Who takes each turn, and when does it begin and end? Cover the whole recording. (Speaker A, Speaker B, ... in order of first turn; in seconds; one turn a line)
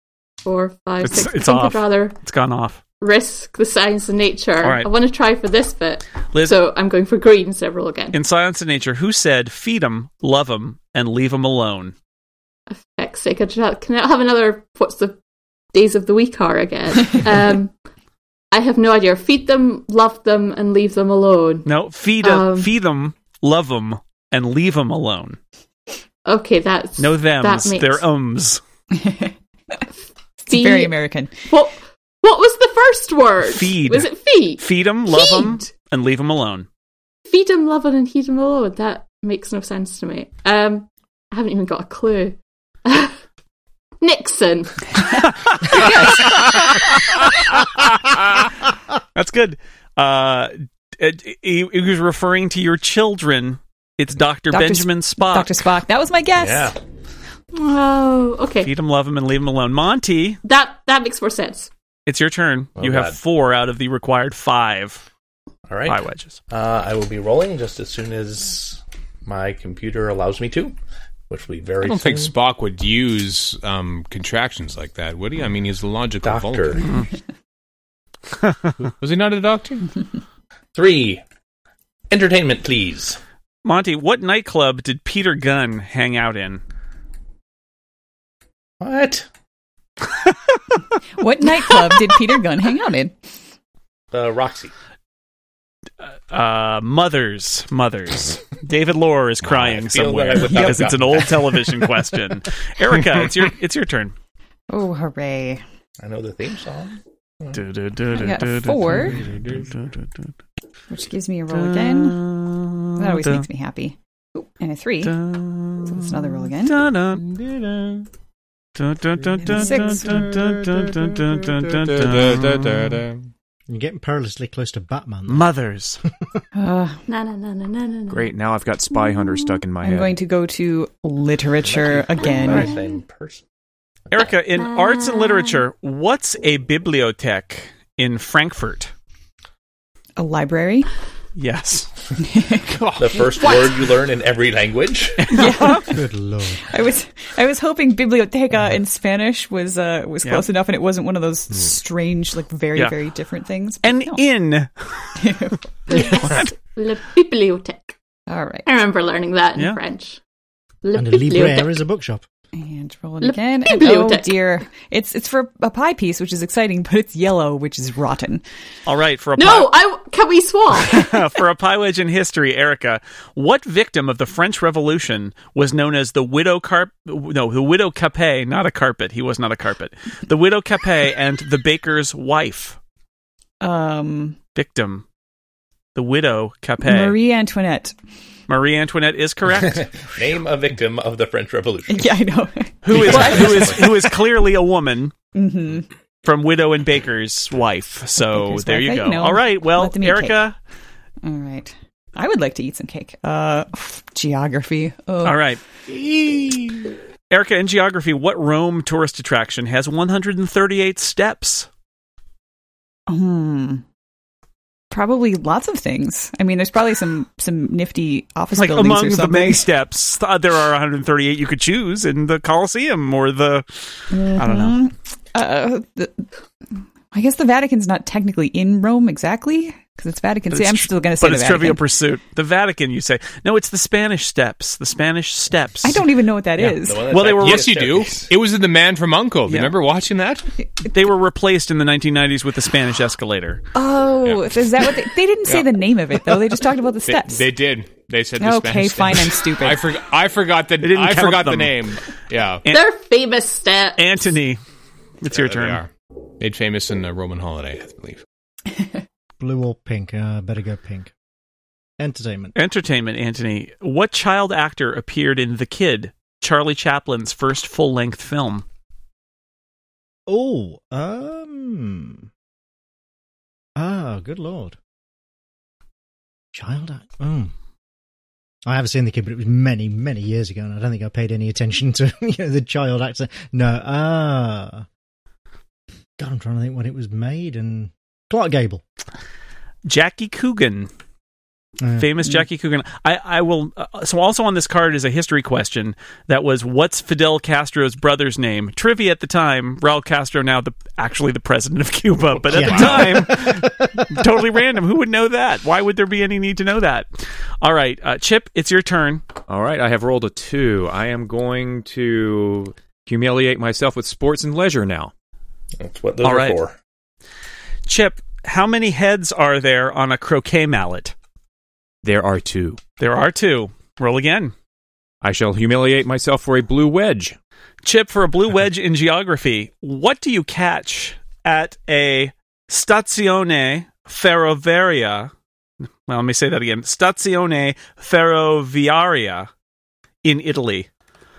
Speaker A: 0.4-2.2
Speaker B: 1.0-2.8
Speaker A: 3.0-8.2
Speaker B: 4.6-4.9
Speaker B: 8.1-11.9
Speaker A: 12.7-15.2
Speaker A: 15.7-17.7
Speaker A: 18.5-21.7
Speaker B: 21.6-25.4
Speaker A: 22.2-22.7
Speaker A: 26.2-28.0
Speaker B: 27.0-28.6
Speaker C: 28.9-29.3
Speaker A: 30.4-30.9
Speaker C: 30.5-31.3
Speaker A: 31.5-35.7
Speaker B: 33.4-36.7
Speaker A: 37.2-43.1
Speaker A: 44.0-45.2
Speaker B: 45.5-46.8
Speaker A: 45.7-46.5
Speaker C: 45.8-46.2
Speaker B: 47.8-48.4
Speaker B: 49.1-55.6
Speaker C: 54.5-56.7
Speaker D: 56.4-56.7
Speaker A: 57.5-58.7
Speaker B: 58.6-60.4
Speaker A: 60.4-61.7
Speaker B: 62.1-65.0
Speaker D: 62.8-63.2
Speaker D: 65.7-66.0
Speaker B: 65.8-66.4
Speaker D: 66.5-70.8
Speaker D: 71.3-72.3
Speaker E: 71.8-76.9
Speaker D: 76.2-76.9
Speaker E: 78.8-80.0
Speaker D: 80.7-81.2
Speaker D: 82.1-83.2
Speaker B: 83.6-86.6
Speaker D: 88.8-89.2
Speaker C: 91.2-93.1
Speaker D: 94.1-94.7
Speaker B: 96.0-104.1
Speaker D: 99.4-101.6
Speaker C: 100.5-100.8
Speaker C: 104.7-105.6
Speaker D: 106.0-107.6
Speaker B: 107.5-110.3
Speaker C: 108.1-109.2
Speaker E: 108.8-109.7
Speaker C: 110.9-112.2
Speaker B: 111.5-113.4
Speaker C: 113.0-115.2
Speaker B: 115.0-117.2
Speaker C: 115.9-116.8
Speaker E: 117.1-118.1
Speaker B: 118.8-123.0
Speaker E: 119.3-123.3
Speaker C: 119.4-120.3
Speaker F: 123.7-125.5
Speaker B: 125.3-126.0
Speaker C: 126.5-127.0
Speaker A: 127.1-128.3
Speaker G: 128.1-130.1
Speaker C: 129.8-132.7
Speaker D: 131.6-133.4
Speaker A: 132.5-132.8
Speaker B: 134.1-138.9
Speaker A: 134.6-135.7
Speaker C: 140.2-140.9
Speaker B: 141.3-141.9
Speaker C: 142.2-142.7
Speaker E: 142.6-143.7
Speaker D: 143.0-145.3
Speaker C: 143.4-143.7
Speaker B: 145.2-145.9
Speaker C: 145.3-146.0
Speaker F: 145.9-146.7
Speaker C: 146.6-154.2
Speaker B: 153.8-155.2
Speaker C: 155.2-155.9
Speaker A: 155.9-157.9
Speaker B: 155.9-156.4
Speaker C: 158.3-158.7
Speaker A: 158.7-160.2
Speaker A: 160.8-161.8
Speaker F: 160.9-162.2
Speaker C: 162.5-168.4
Speaker A: 163.2-164.4
Speaker B: 168.9-169.7
Speaker A: 169.4-171.1
Speaker B: 170.8-182.8
Speaker C: 183.6-184.4
Speaker B: 184.6-185.0
Speaker B: 185.9-187.2
Speaker C: 186.8-187.9
Speaker B: 188.5-189.9
Speaker D: 190.0-192.1
Speaker C: 191.9-194.1
Speaker B: 192.8-195.1
Speaker D: 192.9-193.8
Speaker C: 195.3-195.9
Speaker B: 196.2-200.6
Speaker C: 198.2-200.4
Speaker C: 201.2-205.4
Speaker B: 205.2-205.6
Speaker E: 205.9-206.9
Speaker B: 207.3-211.7
Speaker C: 213.1-213.8
Speaker C: 214.9-219.7
Speaker B: 218.5-223.7
Speaker C: 224.1-226.3
Speaker B: 224.3-224.8
Speaker C: 227.1-231.8
Speaker B: 230.5-236.0
Speaker C: 235.8-237.1
Speaker B: 236.6-237.8
Speaker D: 236.7-238.3
Speaker E: 237.2-240.5
Speaker B: 239.5-239.7
Speaker B: 240.8-243.6
Speaker C: 243.7-247.4
Speaker E: 244.2-244.5
Speaker E: 247.0-252.7
Speaker C: 248.4-249.9
Speaker B: 250.8-251.9
Speaker A: 252.7-254.1
Speaker B: 254.0-254.6
Speaker B: 255.2-255.8
Speaker E: 255.3-258.2
Speaker F: 259.4-261.1
Speaker F: 262.0-262.5
Speaker B: 262.6-268.6
Speaker F: 270.3-272.3
Speaker F: 273.8-274.8
Speaker F: 276.5-277.5
Speaker F: 278.6-284.9
Speaker F: 286.2-288.8
Speaker B: 289.8-290.9
Speaker F: 291.8-292.1
Speaker B: 292.0-307.1
Speaker E: 302.4-303.1
Speaker F: 302.5-304.4
Speaker B: 307.6-309.2
Speaker G: 309.5-315.1
Speaker D: 315.8-316.8
Speaker B: 316.2-316.6
Speaker B: 317.9-321.1
Speaker G: 322.0-322.8
Speaker B: 323.0-324.5
Speaker G: 325.2-327.4
Speaker B: 327.8-335.3
Speaker B: 336.1-339.5
Speaker B: 340.2-340.9